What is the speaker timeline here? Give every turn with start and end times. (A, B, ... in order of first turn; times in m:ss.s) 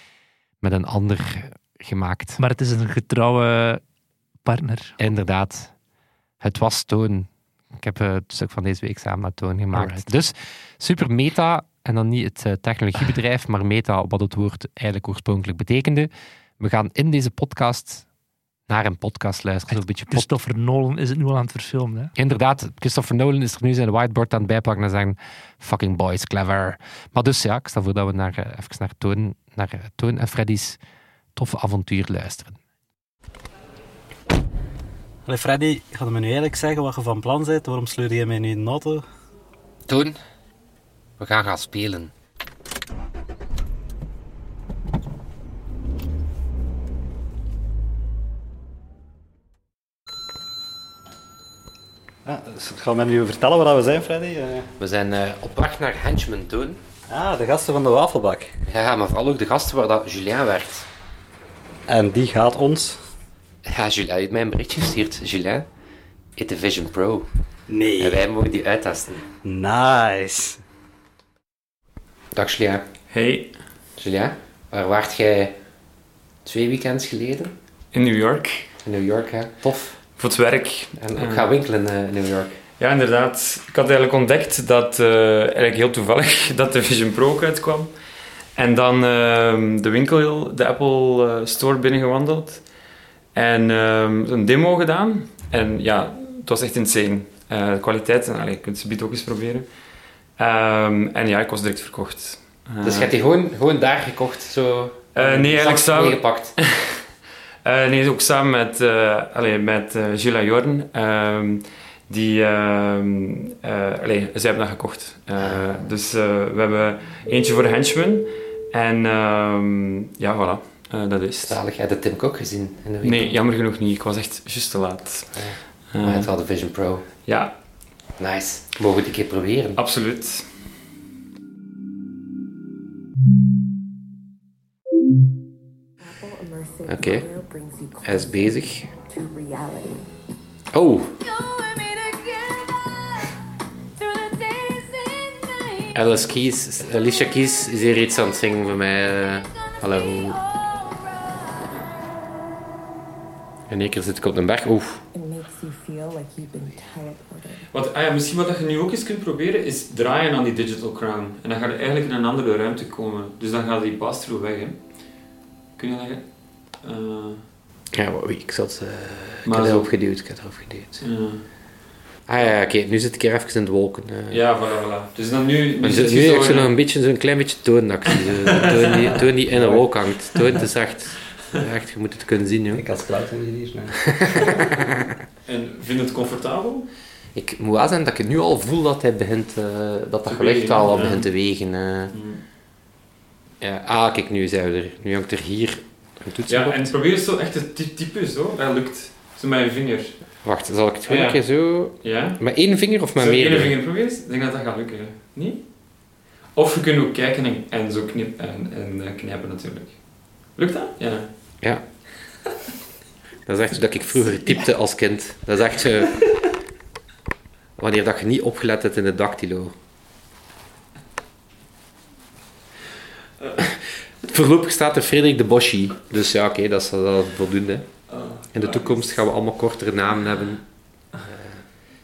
0:00.6-0:02.4 A
0:02.4-0:03.8 B
0:04.4-0:05.0 B
0:05.0-0:05.7 A
0:06.4-0:18.0 A
0:09.7-0:10.1 B
0:18.7-0:20.4 A
0:19.7-0:22.1 B
0:22.2-0:30.8 A
0:31.4-0:32.6 A
0:35.2-0:39.0 C
0:39.9-0:40.2 A
0:41.2-0:42.1 A
0:52.2-0:54.7 C
0:54.8-0:56.8 A
0:57.1-0:58.6 C
0:58.7-1:00.9 A
1:01.9-1:03.0 C
1:03.6-1:05.6 A
1:06.4-1:07.3 A
1:07.7-1:08.2 C
1:08.0-1:09.2 A
1:09.4-1:10.6 C
1:12.3-1:12.8 A
1:13.1-1:13.6 D
1:14.0-1:15.6 A
1:16.4-1:17.5 A
1:17.9-1:18.7 D
1:18.8-1:20.0 A
1:20.2-1:21.5 D
1:21.0-1:22.6 A
1:22.8-1:27.9 D
1:28.5-1:32.7 D
1:33.3-1:39.7 D
1:40.4-1:43.1 D
1:42.8-1:46.6 A
1:45.1-1:47.0 D
1:47.6-2:01.6 D
1:55.4-1:55.8 A
2:01.4-2:03.3 A
2:03.0-2:06.7 D
2:05.3-2:07.0 A
2:07.2-2:07.5 D
2:08.2-2:09.8 A
2:09.8-2:10.5 D
2:16.0-2:20.1 E
2:16.9-2:17.3 A
2:18.0-2:18.9 A
2:20.7-2:21.2 A
2:21.7-2:22.7 E
2:24.2-2:25.3 E
2:25.9-2:30.4 A
2:33.7-2:35.0 A
2:35.1-2:37.7 E
2:37.7-2:47.5 D
2:47.9-2:51.0 A
2:49.4-2:49.9 D
2:51.0-2:51.5 D
2:52.3-2:54.4 A
2:54.3-2:56.7 D
2:55.8-3:02.8 A
2:58.4-3:00.6 D
3:02.7-3:04.6 C
3:04.1-3:05.0 A
3:05.4-3:06.9 D
3:07.3-3:12.1 A
3:10.2-3:11.3 D
3:12.1-3:12.4 D
3:13.6-3:16.9 A
3:16.5-3:20.4 D
3:20.4-3:23.7 A
3:21.0-3:31.7 D
3:33.4-3:36.2 A
3:37.8-3:39.7 A
3:43.6-3:50.6 A
3:48.1-3:49.1 D
3:51.2-3:51.6 A